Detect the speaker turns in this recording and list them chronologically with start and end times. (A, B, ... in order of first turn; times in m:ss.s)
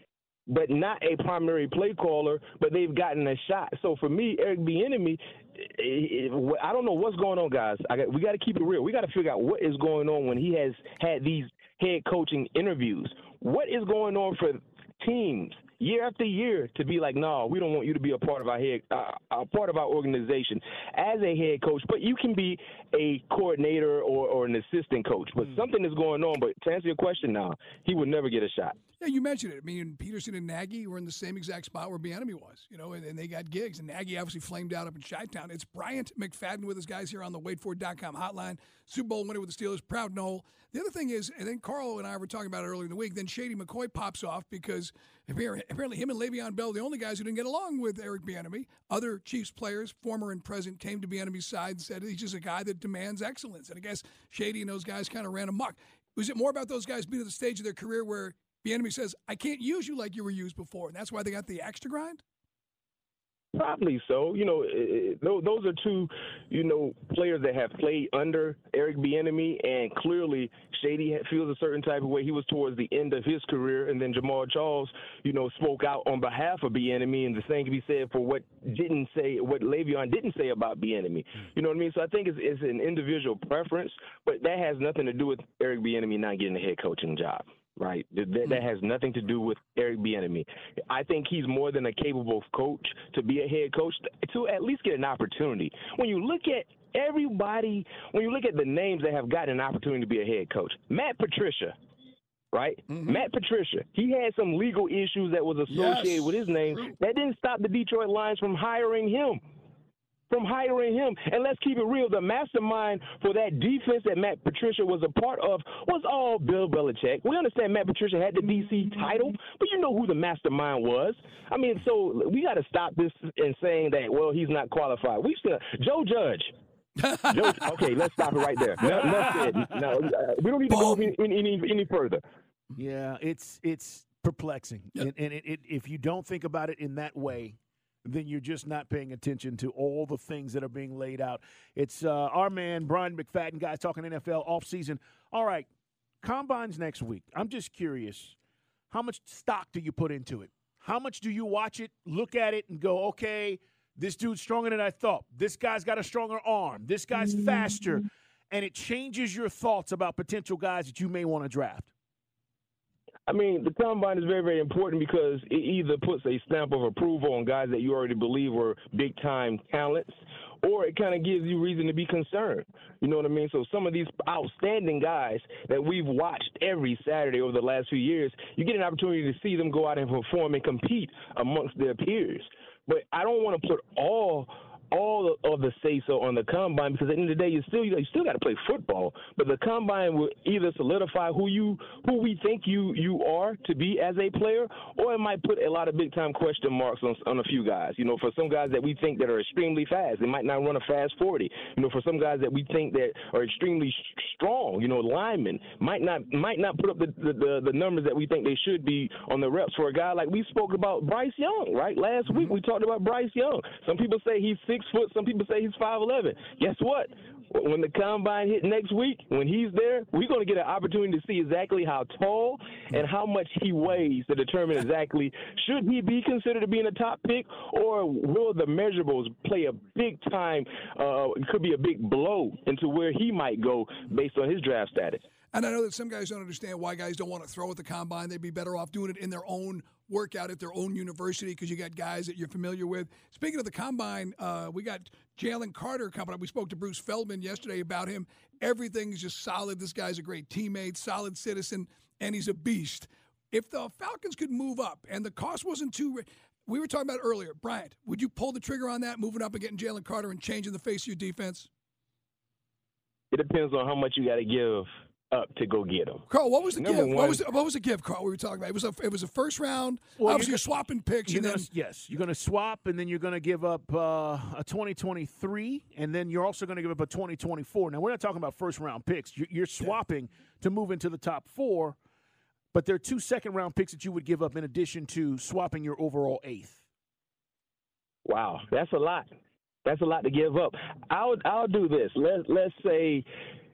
0:00.5-0:28.8 A
0:29.0-1:02.2 B
1:03.6-1:41.7 A
1:42.5-1:49.4 A
1:42.9-1:43.2 B
1:45.7-1:47.0 B
1:50.3-2:06.5 A
2:07.1-2:08.1 B
2:07.3-2:12.2 A
2:08.8-2:09.6 B
2:10.7-2:11.1 B
2:12.8-2:25.7 C
2:26.2-2:28.4 C
2:28.9-2:41.9 C
2:43.3-3:55.2 A
3:32.2-3:32.5 B
3:55.5-4:21.7 B
4:23.3-4:26.2 A
4:26.3-4:31.7 B
4:26.8-4:27.4 A
4:30.2-4:30.6 C
4:31.2-4:42.0 C
4:42.7-4:46.8 C
4:48.2-4:49.3 A
4:49.8-4:53.3 A